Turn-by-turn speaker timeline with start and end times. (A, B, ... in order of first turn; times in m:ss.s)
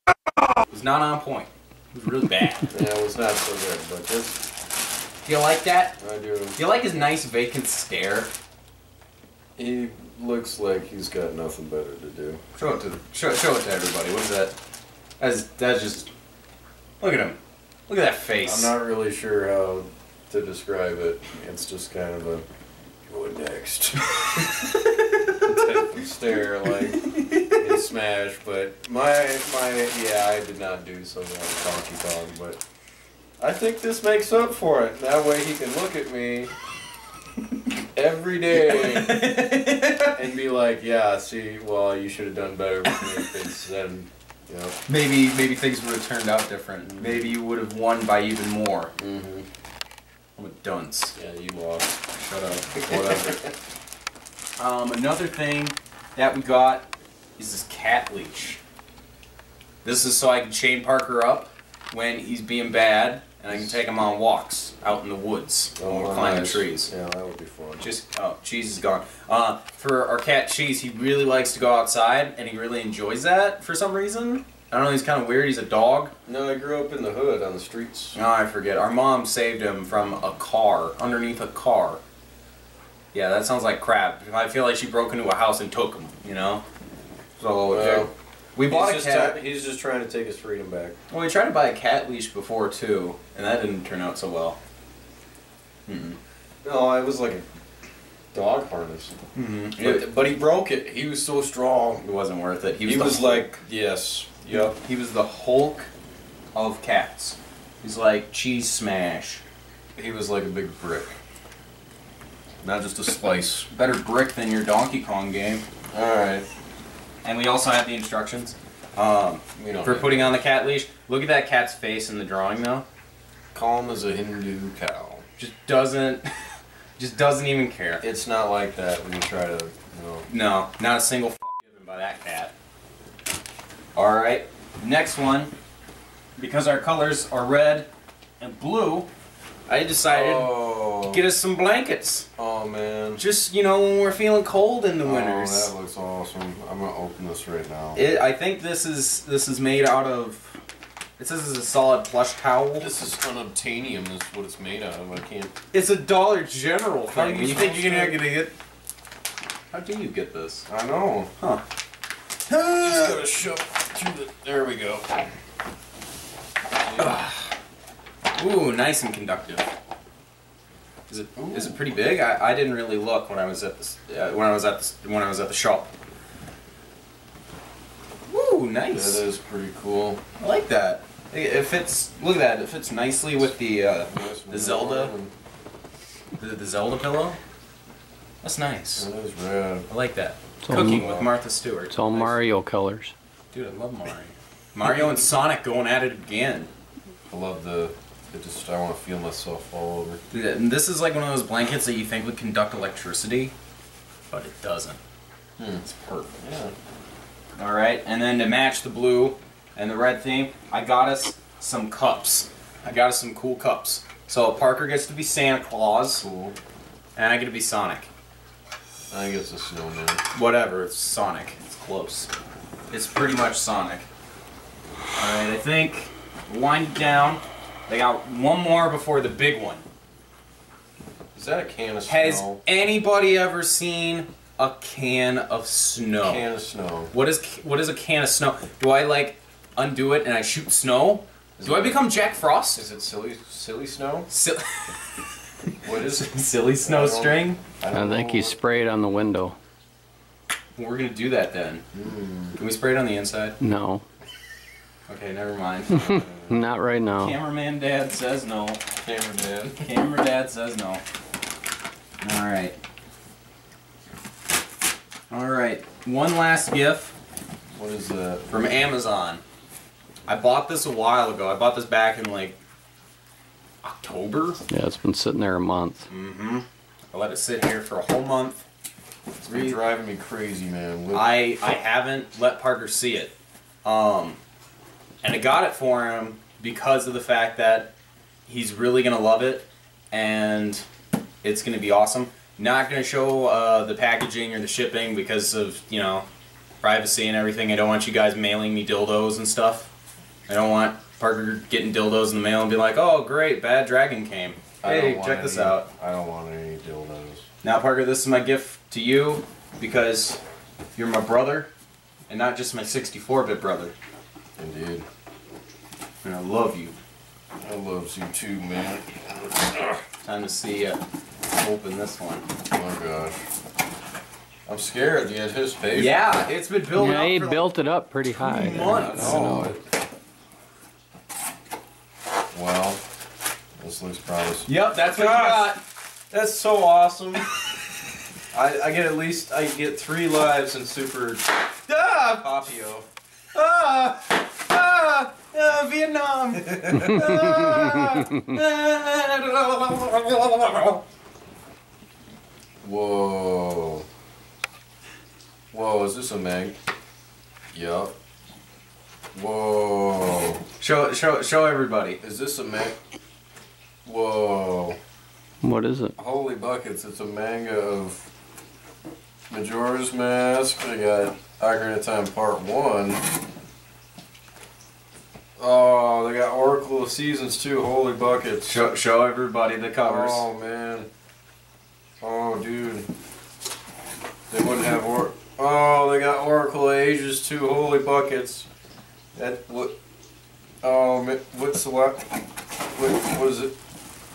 0:00.7-0:02.7 A
0:02.7-0:04.4 B
0:05.2-0:06.0 A
0:06.0-0:06.6 B
0:06.6-0:08.3 A
0:09.6-0:12.4 B
0:12.6-0:14.5 A
0:15.2-0:16.1 A
0:17.0-0:18.7 A
0:18.4-0:22.4 B
0:23.1-0:24.5 B
0:25.4-0:32.6 B
0:27.0-0:27.8 A
0:33.4-0:36.5 B
0:37.9-0:39.4 B
0:38.5-0:40.2 A
0:40.2-0:44.8 B
0:42.9-0:43.3 A
0:44.9-0:48.9 A
0:46.9-0:47.3 B
0:49.0-0:49.5 B
0:50.4-0:51.2 A
0:51.2-0:51.9 B
0:52.1-0:53.4 A
0:52.9-0:53.5 B
0:54.6-0:58.6 A
0:59.8-1:06.9 A
1:05.8-1:07.9 B
1:07.8-1:16.1 A
1:16.2-1:18.2 B
1:18.1-1:22.0 A
1:23.1-1:26.6 A
1:27.4-1:29.4 A
1:27.7-1:28.1 B
1:28.7-1:31.0 B
1:31.1-1:34.6 A
1:35.9-1:36.2 A
1:36.6-1:37.4 B
1:38.3-1:39.1 B
1:39.3-1:40.1 A
1:39.8-1:42.0 B
1:42.0-1:43.5 A
1:42.8-1:44.8 B
1:44.5-1:45.9 A
1:46.5-1:49.4 A
1:50.0-1:51.1 B
1:52.6-1:53.7 B
1:53.7-1:55.6 A
1:55.9-1:56.4 B
1:57.2-2:02.8 A
1:59.6-2:00.4 B
2:03.5-2:05.2 B
2:05.4-2:06.2 A
2:07.0-2:08.0 A
2:08.0-2:10.3 B
2:10.3-2:12.5 A
2:13.9-2:15.5 A
2:16.4-2:17.9 A
2:18.4-2:19.1 A
2:19.7-2:22.3 A
2:20.1-2:21.2 B
2:22.4-2:23.2 B
2:23.2-2:25.7 A
2:25.0-2:28.0 B
2:27.9-2:30.6 A
2:31.2-2:32.9 A
2:32.8-2:35.5 B
2:35.7-2:38.5 A
2:37.1-2:38.2 B
2:39.7-2:40.6 A
2:40.7-2:41.3 B
2:42.5-2:43.2 A
2:42.8-2:45.2 B
2:46.9-2:47.2 B
2:47.0-2:47.5 A
2:48.4-2:49.6 A
2:51.1-2:55.9 A
2:51.4-2:51.8 B
2:58.3-2:59.2 A
2:58.9-3:00.2 B
3:00.4-3:05.1 A
3:04.1-3:05.3 B
3:06.4-3:07.4 A
3:08.4-3:09.1 A
3:09.0-3:09.9 B
3:09.9-3:12.4 A
3:10.6-3:11.0 C
3:10.8-3:11.3 B
3:11.9-3:13.1 C
3:13.5-3:16.7 A
3:17.3-3:20.2 B
3:20.3-3:23.5 A
3:24.3-3:25.0 A
3:25.6-3:25.8 B
3:25.8-3:26.3 A
3:26.4-3:26.7 B
3:27.6-3:36.2 A
3:36.2-3:36.6 B
3:37.2-3:38.1 A
3:39.1-3:40.2 B
3:40.3-3:42.3 A
3:42.9-3:44.0 A
3:45.2-3:49.8 A
3:51.3-3:52.6 B
3:52.1-3:56.4 A
3:56.2-3:57.1 B
3:57.1-4:02.8 A
4:01.6-4:02.0 B
4:02.7-4:04.3 B
4:04.3-4:04.6 A
4:05.8-4:06.3 B
4:06.0-4:07.6 A
4:06.8-4:08.6 B
4:07.9-4:09.6 C
4:10.8-4:11.8 A
4:11.9-4:12.6 B
4:12.5-4:13.6 A
4:13.6-4:14.0 C
4:15.1-4:16.1 A
4:15.9-4:17.3 C
4:16.0-4:16.6 B
4:17.2-4:18.8 A
4:19.0-4:19.9 B
4:19.8-4:21.0 A
4:22.2-4:22.8 A
4:25.3-4:27.1 A
4:27.7-4:28.6 B
4:28.5-4:29.4 A
4:30.3-4:32.6 A
4:33.8-4:34.6 A
4:34.7-4:36.0 C
4:36.1-4:38.6 A
4:39.4-4:39.8 A
4:39.4-4:41.3 B
4:41.1-4:44.4 A
4:45.2-4:47.9 A
4:48.4-4:50.8 A
4:51.4-4:56.3 A
4:56.8-4:59.9 A
5:00.5-5:05.9 A
5:04.8-5:07.4 B
5:07.6-5:10.4 A
5:11.0-5:11.7 A
5:12.3-5:13.9 A
5:14.6-5:15.0 B
5:16.2-5:16.9 A
5:17.6-5:20.0 B
5:20.2-5:21.0 A
5:21.5-5:22.4 A
5:22.7-5:23.4 B
5:24.6-5:26.3 B
5:25.9-5:27.7 A
5:27.0-5:29.8 C
5:28.4-5:29.5 A
5:28.8-5:29.8 B
5:32.5-5:33.0 B
5:33.8-5:35.8 B
5:34.6-5:35.8 A
5:36.3-5:37.4 B
5:38.5-5:41.9 B
5:41.9-5:42.7 A
5:42.4-5:43.0 B
5:43.5-5:51.0 A
5:52.8-5:54.0 B
5:55.7-5:56.8 B
5:57.7-5:58.1 B
5:59.3-6:00.6 B
6:00.8-6:02.2 A
6:02.2-6:03.0 B
6:04.0-6:05.0 B
6:05.6-6:06.1 C
6:06.2-6:08.3 B
6:09.5-6:13.2 B
6:15.6-6:18.9 B
6:18.6-6:20.4 A
6:20.0-6:21.1 B
6:22.2-6:23.1 B
6:24.5-6:28.7 B
6:29.3-6:30.0 B
6:30.8-6:32.3 B
6:32.9-6:33.7 B